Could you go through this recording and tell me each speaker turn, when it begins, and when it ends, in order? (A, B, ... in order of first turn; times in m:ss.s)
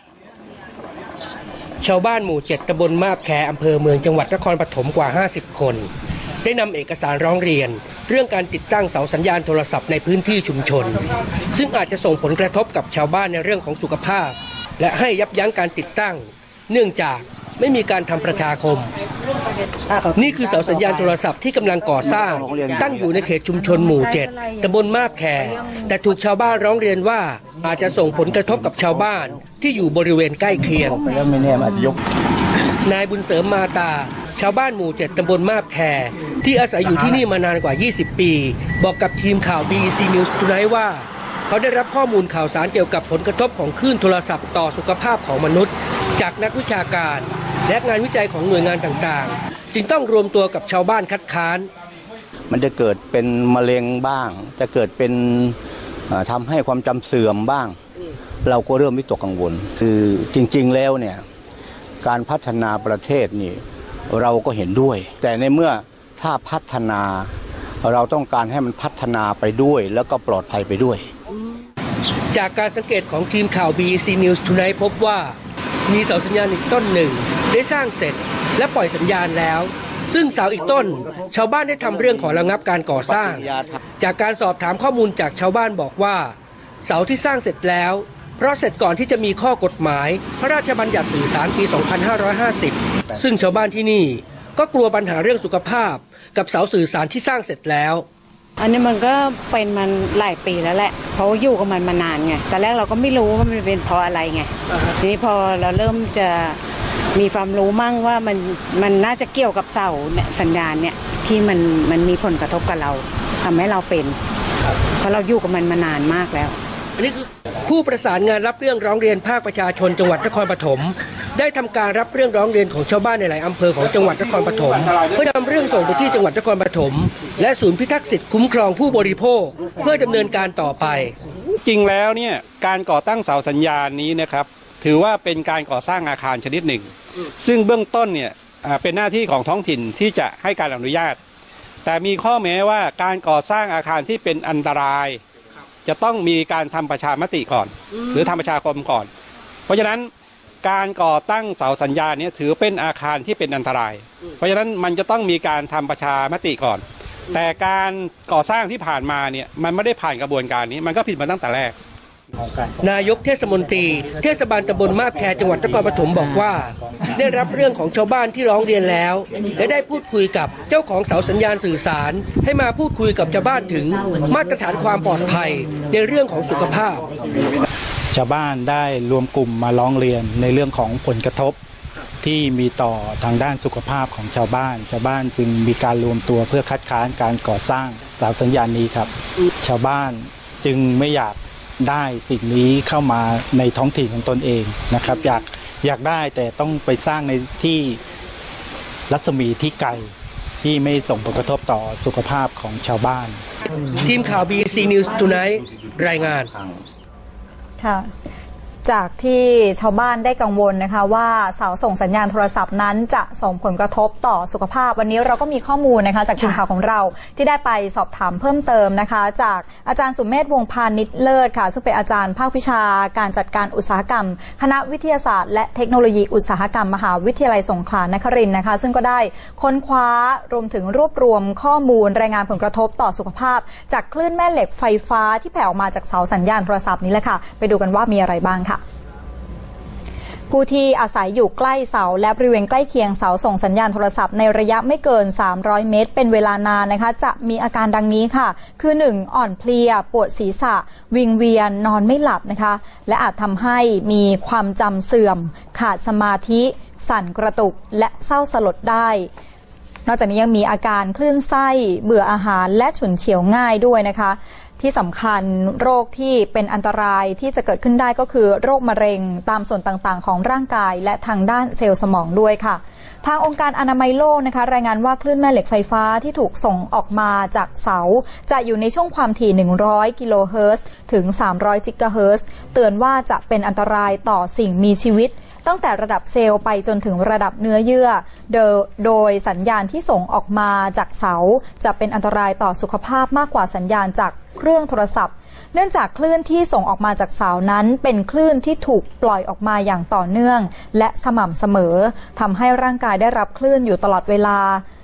0:01.8-0:05.9 A
0:06.4-0:11.0 A
0:11.5-0:18.9 A
0:20.0-0:31.0 A
0:30.9-0:32.0 B
0:32.8-0:51.7 A
0:52.5-0:55.6 B
0:56.1-0:57.8 B
0:58.4-1:01.2 B
1:02.0-1:07.3 B
1:07.8-1:11.1 B
1:12.3-1:15.4 A
1:15.9-1:38.0 A
1:38.6-1:46.6 C
1:47.1-1:54.2 C
1:55.0-1:56.6 C
1:57.0-2:11.2 A
2:11.6-2:21.2 D
2:21.9-2:25.2 D
2:25.8-2:29.1 D
2:29.7-2:30.1 D
2:30.6-2:41.8 D
2:42.8-2:57.1 A
2:58.1-3:01.6 E
3:02.2-3:18.0 E
3:19.1-3:23.4 E
3:24.0-3:26.5 A
3:27.8-3:28.1 F
3:28.8-3:58.8 F
4:00.5-4:19.3 F
4:20.1-5:04.8 F